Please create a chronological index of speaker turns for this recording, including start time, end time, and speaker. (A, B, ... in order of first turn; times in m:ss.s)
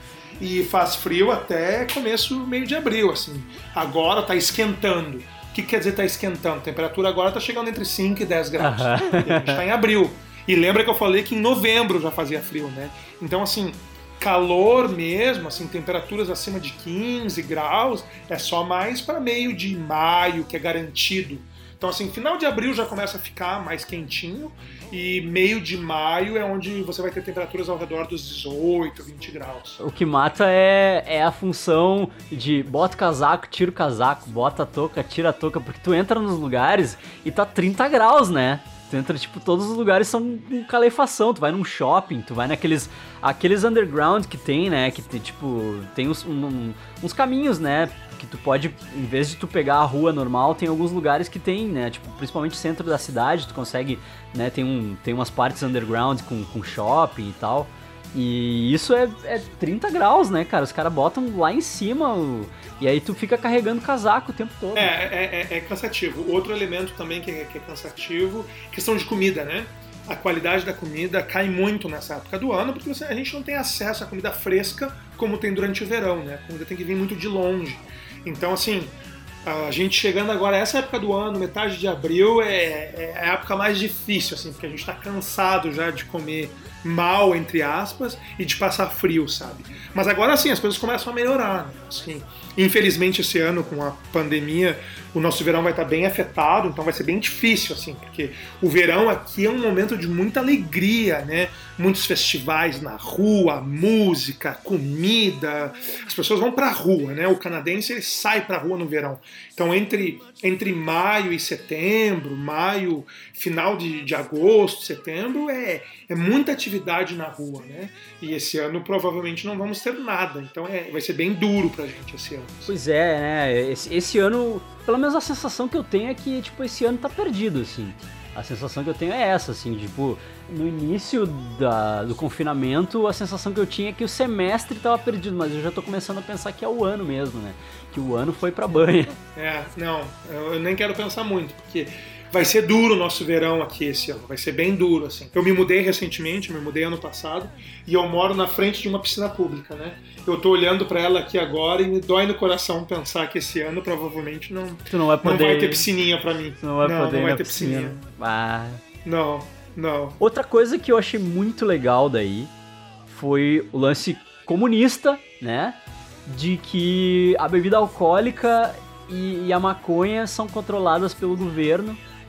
0:00.4-0:29.8 A
0:08.6-0:09.6 B
0:29.8-1:04.9 B
1:04.8-2:02.7 A
2:02.7-2:19.2 B
2:19.4-2:38.0 A
2:34.9-2:35.9 B
2:36.6-2:38.8 B
2:39.0-2:40.2 A
2:40.2-2:42.5 B
2:43.1-2:52.0 B